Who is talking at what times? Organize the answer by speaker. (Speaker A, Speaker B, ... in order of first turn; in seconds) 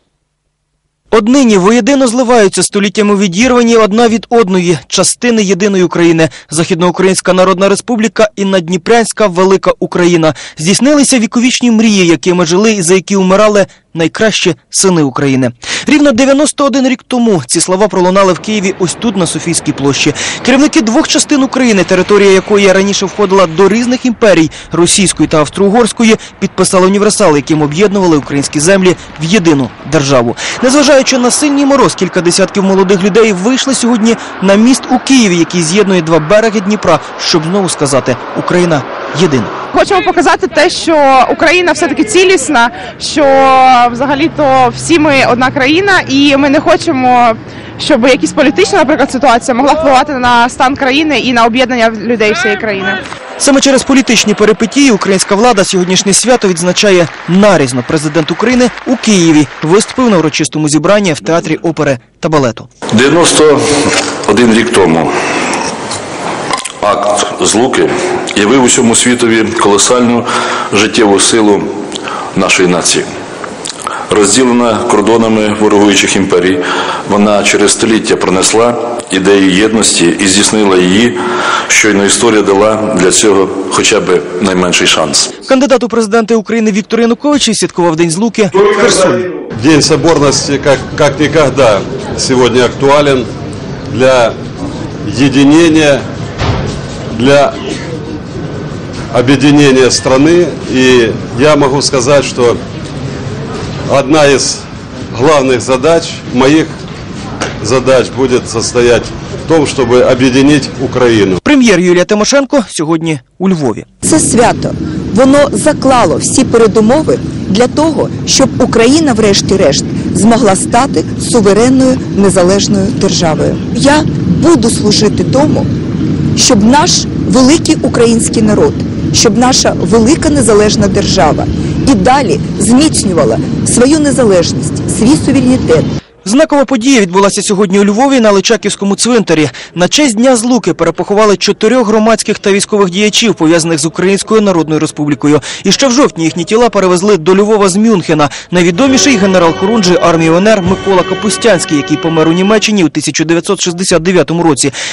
Speaker A: 1.1-39.5, 53.4-62.7, 85.4-89.2, 111.4-113.8, 136.2-154.7
Speaker B: 39.7-53.0
Speaker C: 62.9-63.6, 64.2-65.1, 66.8-71.7, 72.3-73.1, 74.1-81.2, 81.7-85.3
Speaker D: 89.6-93.3, 93.9-94.3, 95.0-96.0, 97.1-97.5, 99.1-102.6, 103.9-106.7, 107.6-111.4
Speaker E: 114.0-125.7, 126.3-135.9